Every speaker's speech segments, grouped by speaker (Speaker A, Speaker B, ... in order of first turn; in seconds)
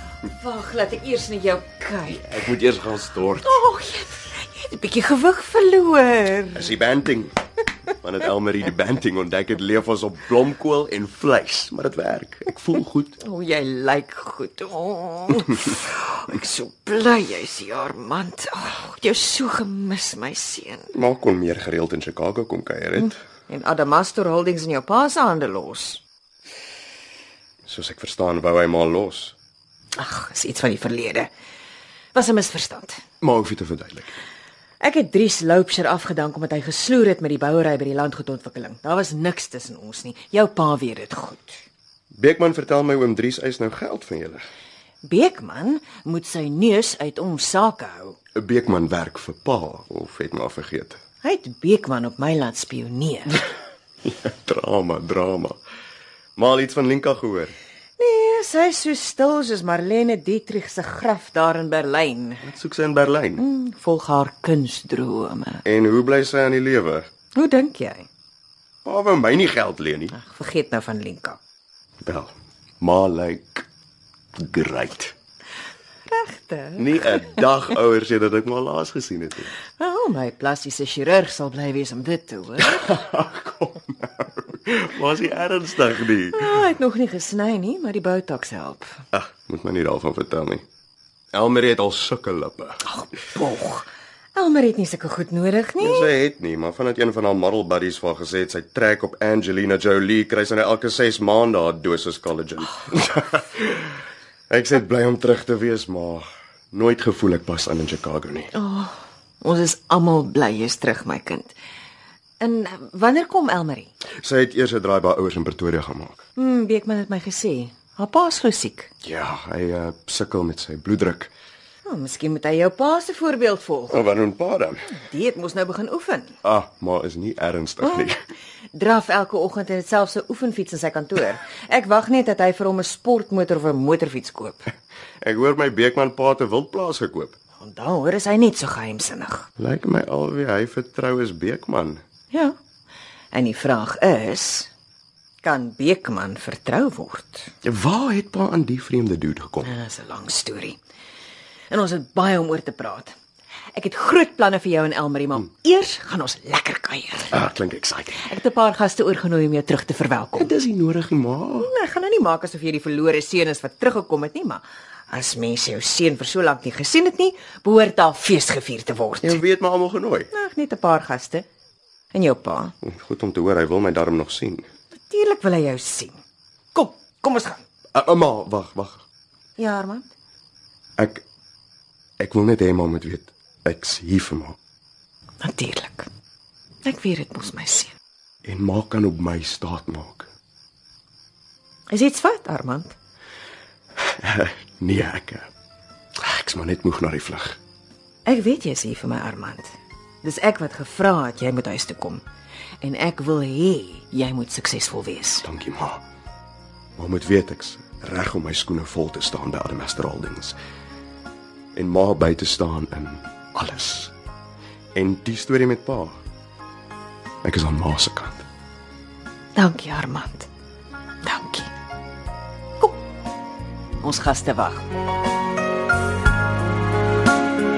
Speaker A: 0.3-2.2, 3.4-6.8, 13.2-20.9, 23.0-26.0, 30.0-31.3, 32.1-33.0, 34.8-41.6, 45.0-48.2, 51.2-53.4, 58.0-62.4, 63.4-65.6, 67.3-68.0, 70.1-71.4, 76.1-77.4, 79.8-83.0, 86.3-88.9, 92.9-96.1, 108.5-111.5, 112.4-113.9, 116.4-118.9, 121.8-124.0, 124.9-126.3, 128.7-134.6, 137.6-139.5, 143.3-144.7, 145.4-147.5, 149.6-150.8, 151.7-153.1, 153.7-157.3, 158.2-160.5, 161.6-169.4, 170.3-171.4, 172.1-172.7, 175.1-176.2, 176.7-177.6, 179.6-180.1, 185.4-186.1, 186.8-187.9, 191.9-192.9, 198.2-199.7, 200.2-202.2, 202.8-205.4, 219.5-220.5, 221.2-221.7, 224.0-224.8
Speaker B: 2.1-3.6, 6.5-7.3, 8.0-13.2, 20.9-23.2, 27.6-29.3, 33.2-34.2, 42.1-44.4, 48.4-51.0, 54.2-55.6, 56.4-57.5, 62.4-63.4, 65.6-67.1, 68.8-70.1, 72.0-73.6, 74.3-75.1, 76.8-79.5, 82.7-86.6, 89.1-90.6, 91.3-92.8, 95.8-103.8, 104.5-108.5, 114.2-116.2, 119.0-121.3, 123.9-124.8, 126.4-128.2, 135.2-137.3, 139.6-142.0, 147.6-149.7, 157.3-158.3, 160.3-161.7, 169.2-170.3, 172.8-174.7, 177.9-179.0, 181.0-181.2, 182.2-184.6, 188.4-190.3, 194.2-195.5, 196.2-197.6, 205.4-206.0, 207.0-210.6, 211.7-214.1, 214.9-216.2, 217.4-218.4